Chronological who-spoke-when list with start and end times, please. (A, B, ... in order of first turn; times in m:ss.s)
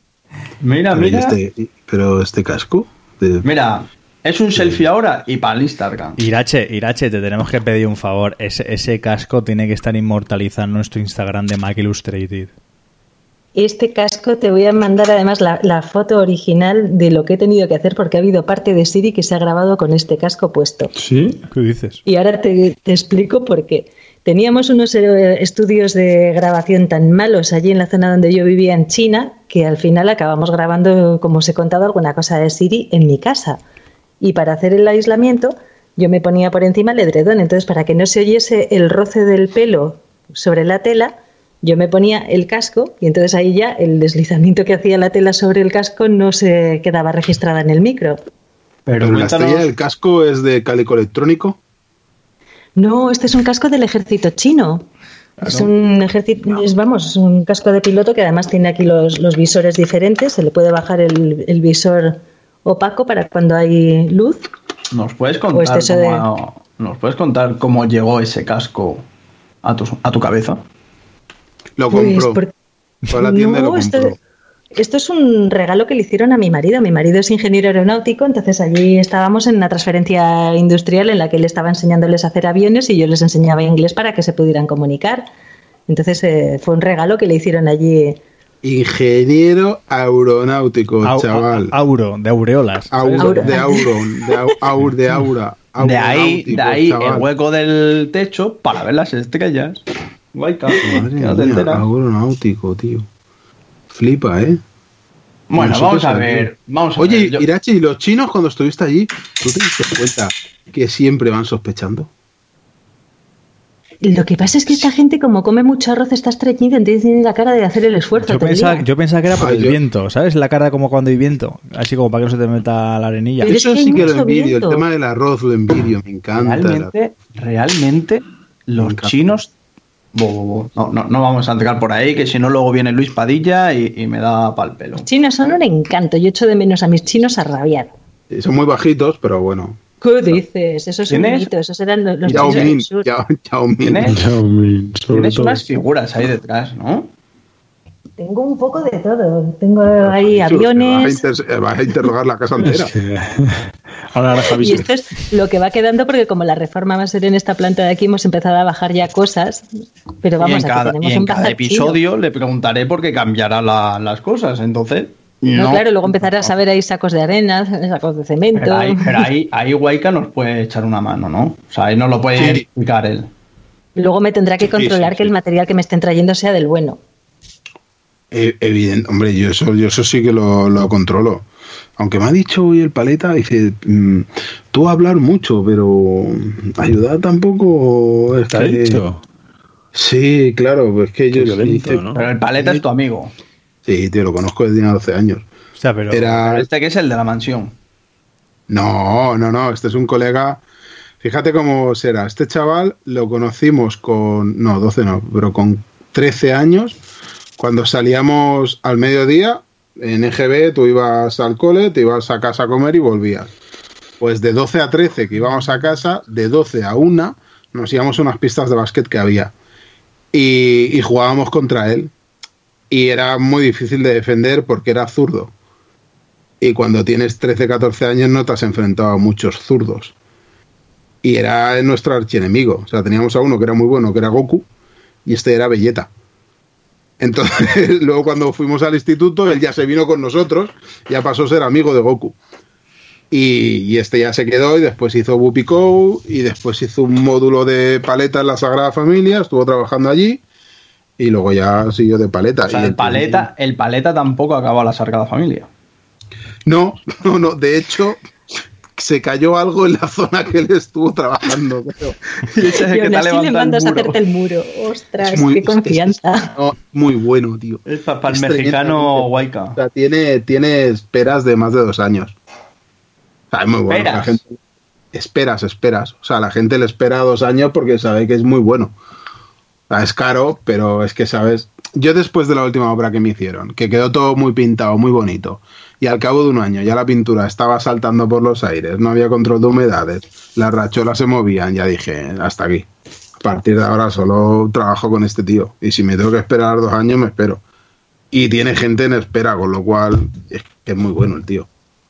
0:00.6-0:01.4 A
0:00.9-0:03.5 B
0:03.4-0:06.2 A
0:06.2-0:12.5 C
0:13.6-0:20.9 D
0:21.0-0:21.5 E
0:21.5-0:22.0 C
0:22.1-0:33.6 D
0:34.2-0:48.2 D
0:48.9-0:49.7 A
0:49.0-0:51.6 B
0:52.8-0:54.9 D
0:55.4-1:04.4 D
1:04.9-1:09.0 A
1:05.5-1:06.3 D
1:09.6-1:10.6 A
1:11.8-1:12.4 B
1:11.9-1:12.5 D
1:13.1-1:14.2 B
1:13.1-1:14.1 D
1:14.8-1:25.2 D
1:25.9-1:28.2 D
1:28.6-1:31.8 B
1:31.0-1:33.6 C
1:32.9-1:37.3 B
1:33.2-1:34.5 D
1:35.8-1:39.8 A
1:40.3-1:41.8 A
1:40.8-1:43.1 B
1:43.9-1:44.6 B
1:45.5-1:47.5 A
1:45.6-1:52.1 B
1:54.0-1:58.8 D
1:58.2-2:03.6 C
1:59.4-1:59.8 B
2:03.4-2:06.9 B
2:03.5-2:04.8 D
2:06.4-2:09.5 A
2:08.8-2:09.1 B
2:10.1-2:15.1 A
2:15.1-2:17.9 D
2:18.3-2:19.8 B
2:20.0-2:23.1 D
2:21.1-2:21.5 A
2:22.2-2:22.7 A
2:22.3-2:24.1 B
2:23.8-2:24.2 A
2:24.0-2:25.6 E
2:25.1-2:27.1 A
2:28.2-2:31.2 D
2:30.0-2:32.9 B
2:32.6-2:34.9 E
2:34.6-2:39.7 D
2:40.2-2:42.0 D
2:40.4-2:46.5 A
2:45.6-2:49.2 D
2:48.6-2:53.3 A
2:52.4-2:52.6 B
2:54.0-2:57.0 D
2:54.7-2:55.3 B
2:58.3-3:01.5 B
3:02.0-3:09.0 B
3:08.5-3:09.2 E
3:09.9-3:12.0 B
3:11.3-3:12.2 E
3:12.2-3:13.3 A
3:12.6-3:12.8 B
3:13.8-3:15.5 B
3:15.8-3:16.3 C
3:16.1-3:16.7 B
3:16.3-3:17.7 A
3:18.7-3:20.6 B
3:21.2-3:27.0 B
3:27.6-3:33.5 B
3:34.2-3:39.5 B
3:40.3-3:42.1 B
3:42.9-3:45.5 B
3:46.6-3:50.1 B
3:51.2-3:54.7 B
3:55.2-3:56.1 B
3:57.2-4:02.4 B
4:03.3-4:10.4 B
4:11.2-4:13.5 B
4:12.6-4:15.7 A
4:16.7-4:18.2 B
4:18.9-4:22.2 B
4:22.4-4:24.2 A
4:22.8-4:26.5 D
4:25.2-4:32.4 B
4:27.9-4:29.8 A
4:33.5-4:34.6 B
4:33.9-4:34.4 A
4:35.1-4:39.0 B
4:39.9-4:52.9 B
4:53.4-4:57.6 B
4:58.3-5:01.7 B